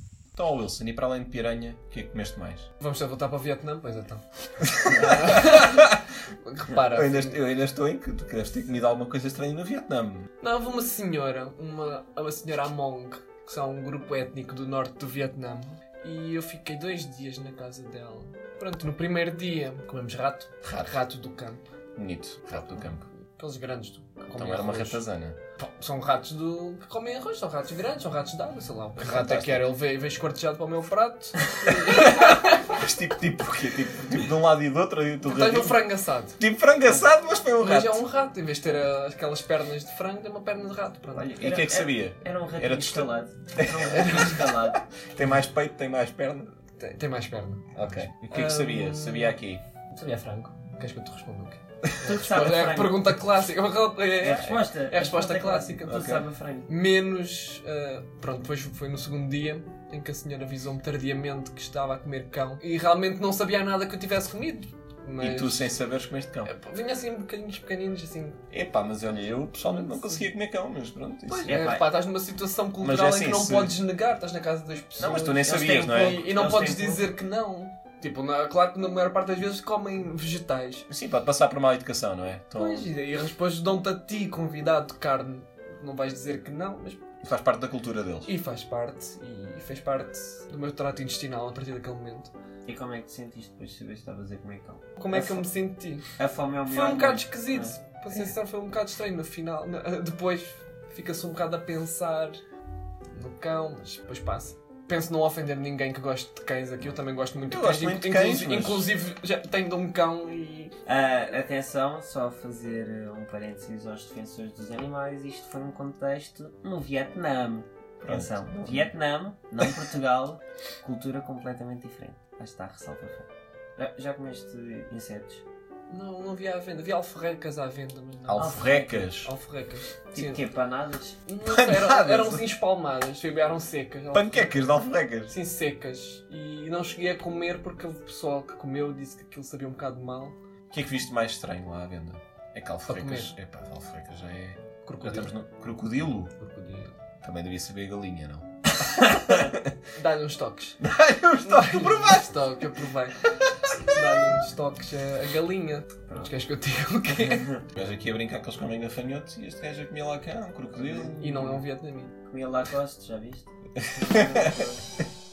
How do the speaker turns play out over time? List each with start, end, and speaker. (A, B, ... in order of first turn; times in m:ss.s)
0:00.4-0:02.7 A
0:02.8-0:07.4 B
0:04.8-0:06.0 A
0:06.8-0:10.3 A
0:10.4-0:21.6 B
0:20.6-0:20.9 A
0:22.0-0:23.1 A
0:22.5-0:25.0 B
0:24.4-0:25.4 A
0:25.6-0:32.7 B
0:29.0-0:29.7 A
0:31.8-0:35.8 A
0:35.2-0:36.4 B
0:36.4-0:38.0 A
0:37.6-0:41.4 B
0:41.1-0:44.8 C
0:41.4-0:46.5 A
0:43.9-0:44.5 B
0:46.8-0:49.4 B
0:47.8-0:49.6 A
0:49.9-1:05.7 B
0:52.0-0:53.1 C
0:54.2-0:56.7 C
0:55.9-0:56.2 A
1:05.2-1:06.5 A
1:06.5-1:08.4 B
1:08.5-1:11.7 A
1:09.6-1:10.2 B
1:11.3-1:20.9 B
1:11.5-1:11.9 C
1:12.8-1:13.8 A
1:15.0-1:16.3 A
1:15.4-1:17.1 C
1:20.9-1:22.9 A
1:22.6-1:27.0 B
1:27.2-1:28.3 A
1:28.3-1:32.3 B
1:32.7-1:35.5 C
1:35.0-1:36.1 B
1:36.2-1:38.3 C
1:36.7-1:42.4 B
1:43.1-1:50.7 B
1:47.5-1:48.9 A
1:50.9-2:05.4 C
1:58.0-1:58.9 A
2:05.9-2:10.4 B
2:08.3-2:09.3 A
2:08.4-2:08.6 C
2:10.1-2:11.2 C
2:11.3-2:14.6 B
2:11.5-2:12.4 A
2:14.1-2:15.3 A
2:15.3-2:20.4 B
2:20.7-2:26.3 A
2:22.9-2:23.3 B
2:24.8-2:25.3 B
2:26.4-2:27.0 B
2:27.2-2:29.7 A
2:30.0-2:30.8 B
2:30.8-2:32.5 A
2:31.4-2:33.2 B
2:33.8-2:37.5 B
2:37.7-2:41.2 A
2:40.7-2:41.6 C
2:41.2-2:42.1 B
2:42.3-2:44.8 C
2:44.1-2:44.5 A